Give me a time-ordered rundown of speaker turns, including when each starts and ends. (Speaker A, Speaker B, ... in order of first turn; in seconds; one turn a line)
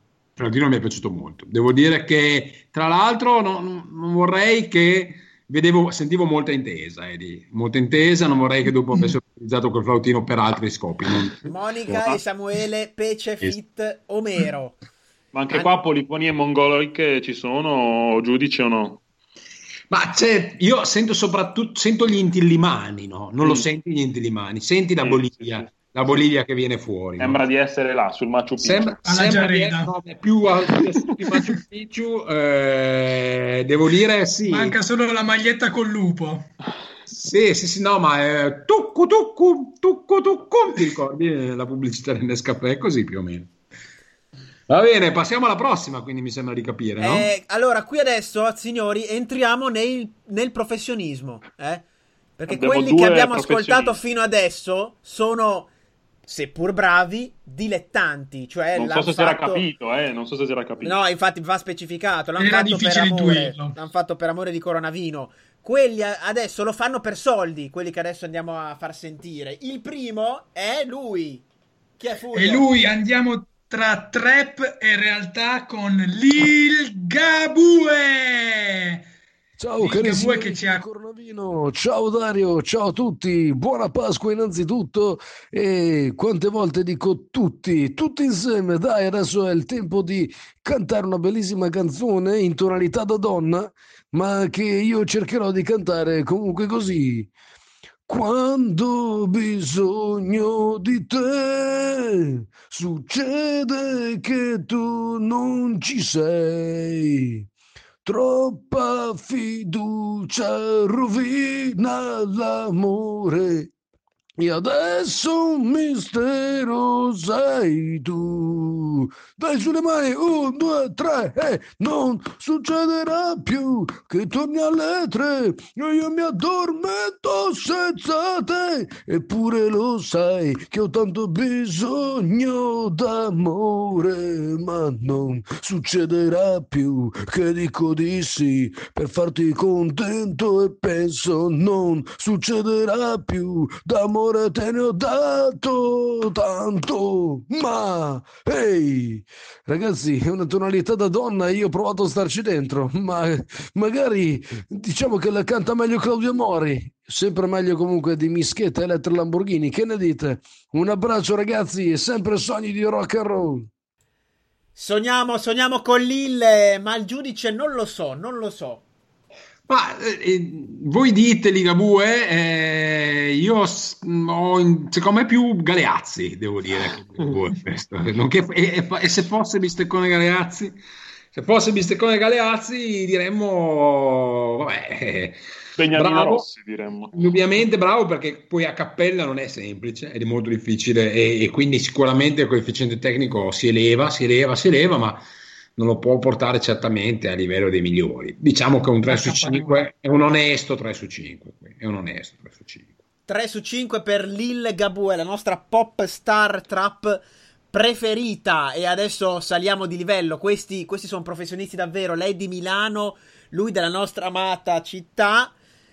Speaker A: 0.4-12.1
Speaker B: 11.4-14.8
Speaker C: 15.3-19.0
Speaker A: 19.9-27.4
Speaker C: 25.0-25.7
Speaker C: 27.2-29.0
Speaker A: 28.6-34.8
Speaker D: 29.0-29.9
Speaker D: 34.4-36.5
Speaker A: 37.1-43.5
Speaker A: 44.7-47.3
Speaker B: 47.0-51.8
Speaker B: 52.4-55.7
Speaker C: 52.5-54.0
Speaker B: 56.3-59.6
Speaker C: 58.7-61.0
Speaker B: 60.8-71.4
Speaker D: 62.4-63.8
Speaker B: 72.0-72.7
Speaker D: 72.3-79.0
Speaker E: 79.6-97.3
Speaker D: 79.8-80.8
Speaker E: 98.1-107.5
Speaker E: 108.0-113.7
Speaker E: 114.4-163.7
Speaker B: 164.7-168.8
Speaker A: 169.7-180.8
Speaker A: 181.3-185.4
Speaker C: 185.8-187.1
Speaker A: 185.9-186.4
Speaker A: 187.1-195.2
Speaker A: 195.8-202.9
Speaker D: 199.1-199.9
Speaker B: 203.3-215.5